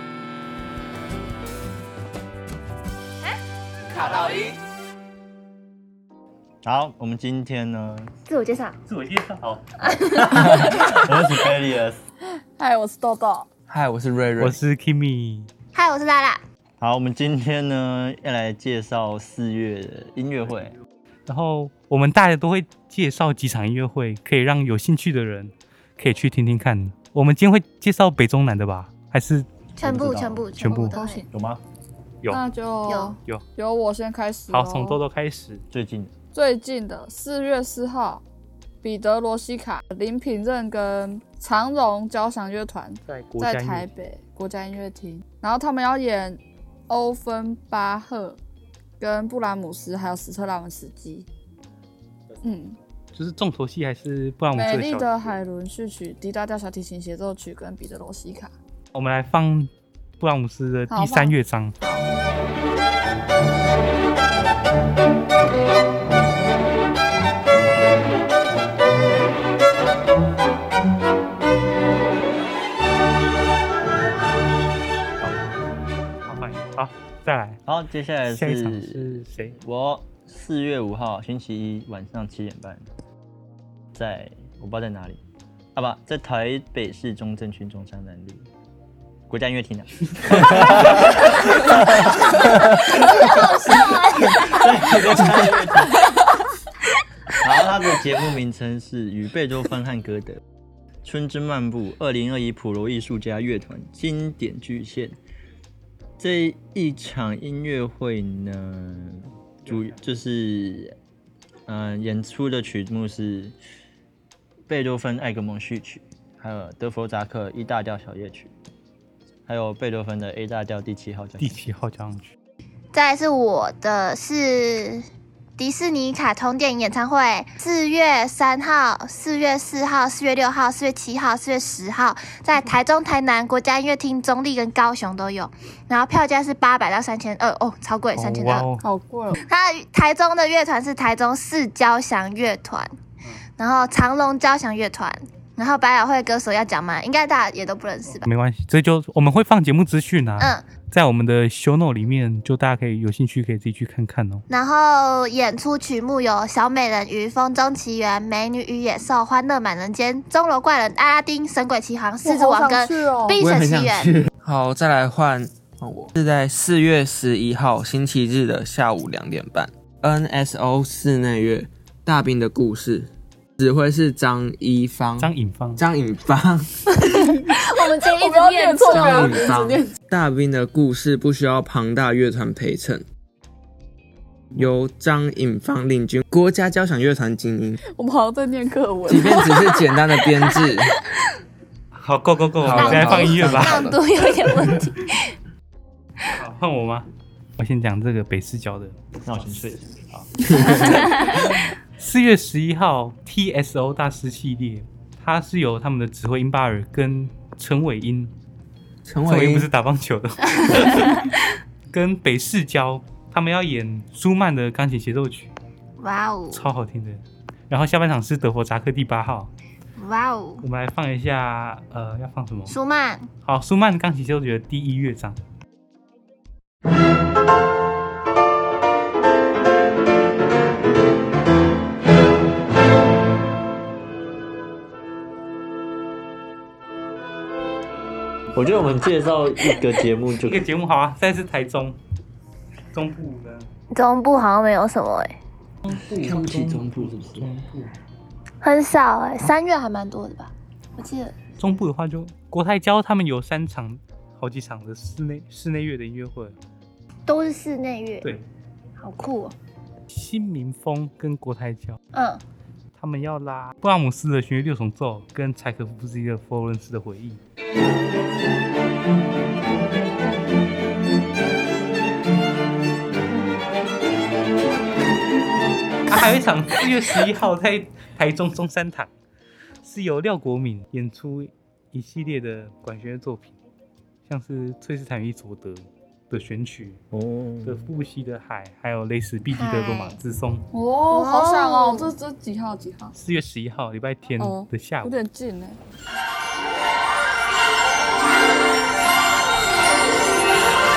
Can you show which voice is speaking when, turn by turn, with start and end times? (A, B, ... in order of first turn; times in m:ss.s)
0:06.6-0:08.1 A
0:08.2-0:08.8 B
0:08.9-0:09.8 C
0:09.9-0:11.0 D
0:10.1-0:12.0 A
0:12.6-0:13.5 D
0:13.7-0:14.6 E
0:14.4-0:15.5 C
0:15.7-0:16.4 B
0:16.8-0:20.8 A
0:21.3-0:29.5 C
0:29.8-0:31.2 B
0:29.8-0:30.5 A
0:30.6-0:31.0 C
0:30.9-0:31.3 D
0:31.3-0:31.6 A
0:32.3-0:35.0 D
0:32.9-0:33.2 B
0:34.5-0:35.6 C
0:35.7-0:36.1 A
0:36.3-0:38.2 D
0:38.8-0:48.4 D
0:43.1-0:43.9 C
0:49.0-0:51.3 D
0:52.4-0:52.8 D
0:53.1-0:55.1 C
0:54.5-0:58.5 D
0:58.9-1:01.8 C
1:00.9-1:02.0 D
1:15.2-1:15.5 C
1:16.2-1:17.6 C
1:17.7-1:22.9 A
1:18.3-1:19.6 C
1:23.9-1:25.2 A
1:25.8-1:28.5 A
1:29.3-1:36.0 A
1:32.7-1:34.7 B
1:37.4-1:40.4 A
1:41.0-1:45.2 A
1:46.2-1:50.9 A
1:49.3-1:50.0 C
1:51.7-1:53.6 A
1:54.7-1:58.5 A
1:59.4-2:01.6 A
2:01.4-2:02.3 C
2:02.9-2:05.0 B
2:05.6-2:18.7 B
2:18.1-2:18.8 C
2:18.8-2:19.4 D
2:19.4-2:22.9 B
2:23.6-2:28.3 B
2:28.0-2:34.4 C
2:34.5-2:44.1 B
2:42.2-2:43.4 D
2:43.4-2:56.7 E
2:55.2-2:55.8 C
2:56.9-3:00.0 D
2:57.7-2:59.5 B
2:58.9-3:03.0 E
3:04.5-3:07.8 E
3:07.9-3:11.0 D
3:09.1-3:10.9 E
3:11.9-3:13.9 C
3:12.6-3:14.0 E
3:12.7-3:15.3 B
3:16.4-3:19.6 C
3:19.2-3:20.4 A
3:20.5-3:20.9 E
3:20.7-3:21.1 C
3:20.8-3:21.2 B
3:22.0-3:28.3 C
3:29.0-3:29.7 E
3:29.2-3:31.4 C
3:31.9-3:35.5 C
3:36.0-3:36.7 B
3:36.5-3:39.5 C
3:40.0-3:40.7 B
3:40.6-3:42.8 C
3:42.7-3:43.3 B
3:43.4-3:45.4 C
3:58.5-4:00.6 A
4:00.4-4:02.0 C
4:02.9-4:03.7 C
4:03.9-4:05.3 B
4:05.8-4:07.9 C
4:06.1-4:07.5 A
4:08.6-4:11.4 B
4:11.6-4:16.6 C
4:17.3-4:18.3 B
4:19.0-4:19.5 B
4:20.1-4:22.0 C
4:22.1-4:22.4 B
4:23.0-4:27.4 C
4:36.1-4:39.1 C
4:39.8-4:43.5 C
4:44.2-4:47.0 C
4:47.1-4:47.9 A
4:47.6-4:50.7 C
4:49.5-4:50.2 B
4:50.7-4:53.2 D
4:51.1-4:52.1 B
4:53.1-4:55.2 C
4:54.4-4:55.8 D